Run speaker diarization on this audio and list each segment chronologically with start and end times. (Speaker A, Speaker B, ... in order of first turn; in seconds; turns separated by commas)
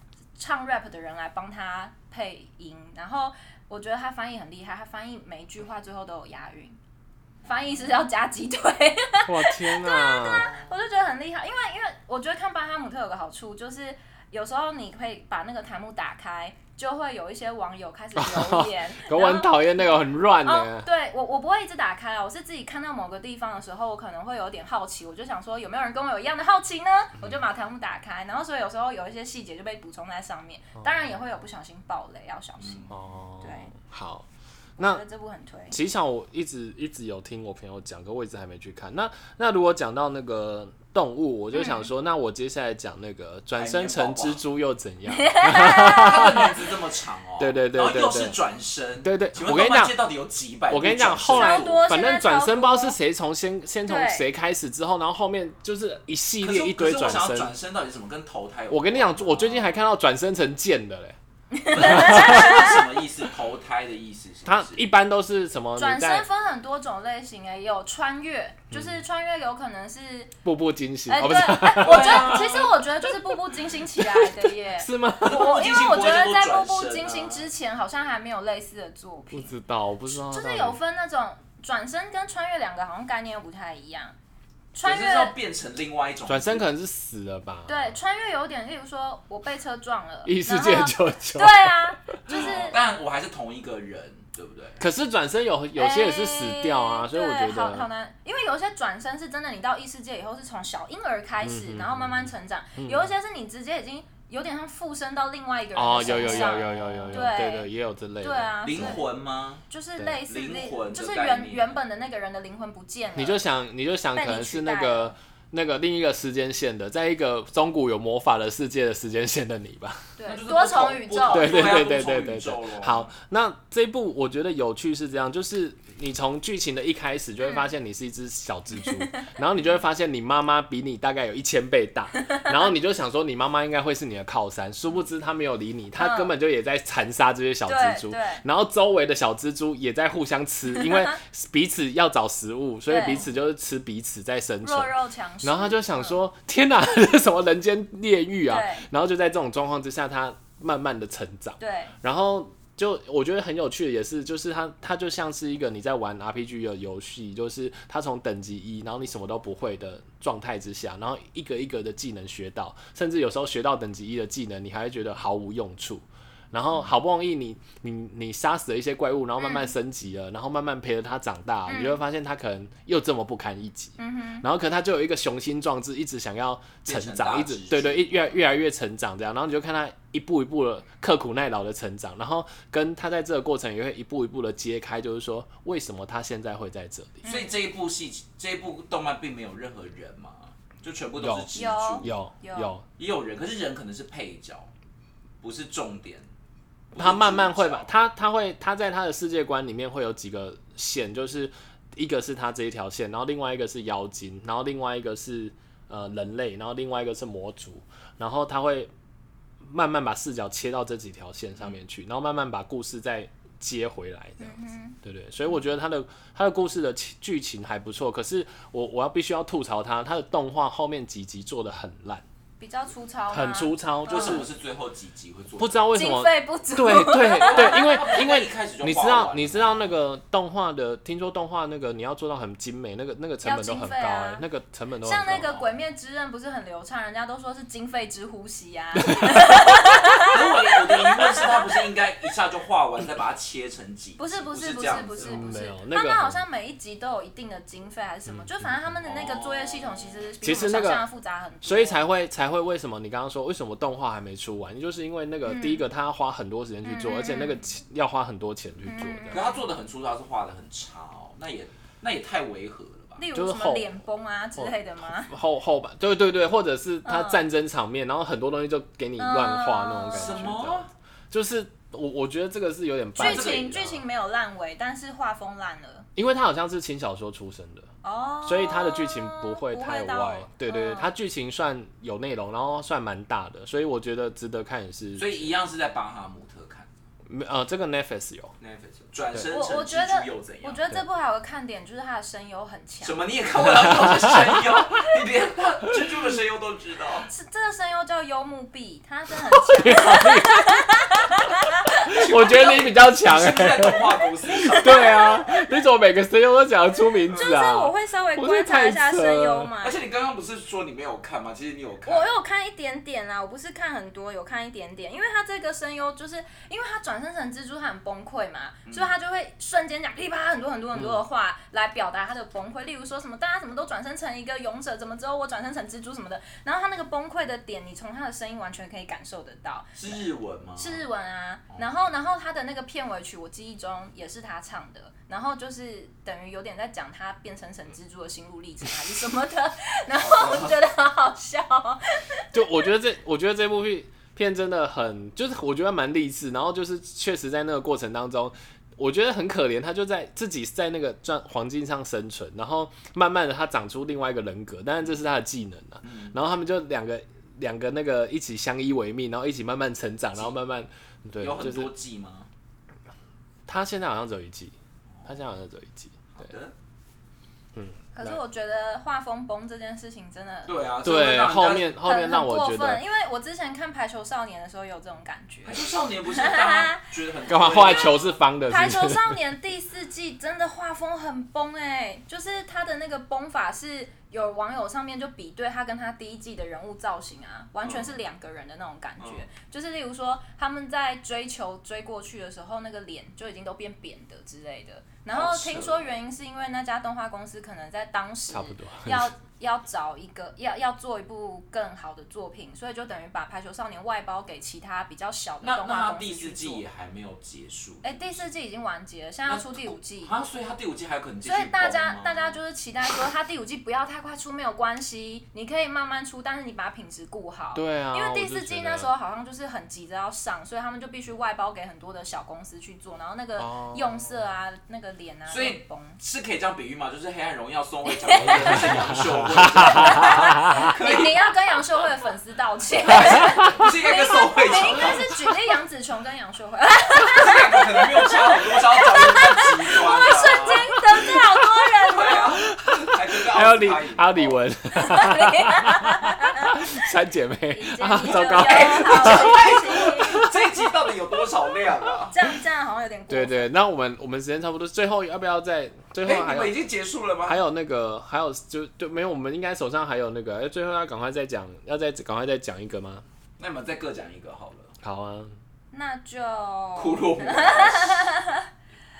Speaker A: 0.4-6.8, Speaker B: 7.4-7.9, Speaker A: 7.4-19.9, Speaker C: 9.3-10.5, Speaker B: 10.2-10.7, Speaker C: 18.2-20.9, Speaker A: 20.4-33.7, Speaker B: 32.6-32.9, Speaker C: 32.9-34.3, Speaker C: 34.8-35.0, Speaker A: 34.8-35.8, Speaker C: 35.7-46.5, Speaker A: 41.5-41.9, Speaker B: 43.5-44.4, Speaker A: 45.1-46.5, Speaker B: 45.8-51.9, Speaker C: 47.4-48.4, Speaker C: 49.0-49.9, Speaker C: 50.7-57.5, Speaker A: 51.3-53.0, Speaker A: 53.9-54.2, Speaker B: 56.4-59.7, Speaker C: 58.7-61.2, Speaker A: 61.5-62.8, Speaker B: 61.7-64.9, Speaker C: 61.8-62.7, Speaker C: 64.5-66.2, Speaker A: 65.8-70.3, Speaker C: 68.7-69.0, Speaker C: 70.4-73.3, Speaker A: 71.1-79.5, Speaker B: 71.8-72.7, Speaker C: 74.0-75.5, Speaker B: 75.2-77.5, Speaker C: 79.3-80.8, Speaker A: 80.1-84.1, Speaker A: 84.7-85.3, Speaker B: 84.8-86.7, Speaker C: 86.3-88.0, Speaker A: 87.7-92.8, Speaker C: 90.2-92.4, Speaker B: 92.3-94.8, Speaker C: 94.8-97.9, Speaker A: 95.8-109.1, Speaker C: 101.4-103.1, Speaker C: 105.7-108.9, Speaker B: 106.2-106.5, Speaker B: 108.6-109.7, Speaker A: 109.7-113.4, Speaker B: 110.3-111.7, Speaker C: 113.2-120.1, Speaker A: 114.1-115.1, Speaker A: 120.2-121.8, Speaker B: 120.3-123.1, Speaker C: 121.3-187.2, Speaker A: 128.8-129.3, Speaker A: 132.2-132.5, Speaker A: 136.0-136.3, Speaker A: 137.7-138.4, Speaker A: 142.9-143.2, Speaker A: 144.6-146.2, Speaker A: 148.5-148.8, Speaker A: 151.6-151.9, Speaker A: 169.4-169.7, Speaker A: 171.7-172.0, Speaker A: 174.0-174.4, Speaker B: 176.8-178.2, Speaker A: 187.2-187.5, Speaker B: 187.2-192.1, Speaker C: 191.2-191.5, Speaker A: 191.5-192.7, Speaker C: 192.0-192.8, Speaker B: 193.0-194.7, Speaker B: 195.4-196.3, Speaker B: 196.9-197.9, Speaker C: 196.9-208.9, Speaker C: 209.6-222.2, Speaker A: 214.4-215.0, Speaker A: 222.6-224.4, Speaker C: 223.3-224.5, Speaker B: 224.1-225.9, Speaker C: 225.6-235.5, Speaker A: 225.9-228.2, Speaker B: 226.9-229.9, Speaker A: 233.4-234.4, Speaker A: 235.0-241.8, Speaker B: 235.4-235.7, Speaker C: 239.0-239.9, Speaker B: 240.2-245.5, Speaker A: 244.2-252.0, Speaker C: 245.2-246.4, Speaker C: 248.3-248.9, Speaker B: 249.0-250.3, Speaker C: 250.4-251.0, Speaker C: 251.6-259.4, Speaker A: 255.4-255.8, Speaker A: 256.8-257.6, Speaker A: 258.9-259.6, Speaker B: 259.3-263.2, Speaker A: 263.2-265.3, Speaker C: 263.3-263.9, Speaker C: 264.6-274.0, Speaker A: 267.0-267.4, Speaker A: 269.2-270.5, Speaker B: 270.1-270.9, Speaker A: 273.1-276.1, Speaker B: 273.2-273.7, Speaker C: 276.1-277.9, Speaker A: 278.0-281.1, Speaker C: 278.4-285.5, Speaker B: 285.2-286.9, Speaker C: 287.3-288.5, Speaker B: 288.6-290.8, Speaker A: 289.5-293.2, Speaker B: 293.0-297.3, Speaker C: 294.1-294.6, Speaker A: 297.3-302.8, Speaker C: 299.5-301.0, Speaker B: 302.1-305.4, Speaker C: 302.1-309.7, Speaker A: 304.7-305.4, Speaker A: 307.3-310.0, Speaker B: 309.8-312.3, Speaker A: 312.1-330.2, Speaker B: 318.9-319.1, Speaker C: 320.9-321.2, Speaker B: 330.0-331.0, Speaker A: 330.8-342.6, Speaker B: 340.1-340.8, Speaker C: 342.5-361.9, Speaker B: 356.0-356.4, Speaker B: 361.4-362.5, Speaker C: 363.7-364.7, Speaker C: 365.2-366.3, Speaker B: 366.3-366.7, Speaker C: 367.7-368.4, Speaker A: 368.1-370.7, Speaker B: 370.6-371.9, Speaker C: 371.0-373.0, Speaker A: 372.0-377.1, Speaker B: 375.6-378.4, Speaker C: 377.5-379.4, Speaker A: 378.7-406.8, Speaker B: 387.8-388.1, Speaker B: 389.2-389.4, Speaker B: 395.3-396.1, Speaker C: 398.5-399.3, Speaker B: 405.6-408.5, Speaker A: 408.0-410.3, Speaker B: 409.5-412.6, Speaker A: 411.4-426.2, Speaker C: 417.7-419.1, Speaker C: 423.6-424.3, Speaker B: 425.5-431.5, Speaker A: 428.1-429.1, Speaker C: 428.7-430.8, Speaker A: 429.7-442.4, Speaker B: 433.0-435.3, Speaker B: 437.2-441.3, Speaker B: 442.1-444.6, Speaker C: 442.8-450.6, Speaker A: 444.9-447.1, Speaker A: 447.7-450.5, Speaker B: 448.3-452.3, Speaker A: 452.3-453.7, Speaker C: 453.3-456.7, Speaker B: 456.2-457.6, Speaker C: 457.4-463.2, Speaker B: 463.6-464.9, Speaker C: 465.0-465.6, Speaker A: 465.9-468.7, Speaker B: 466.9-468.3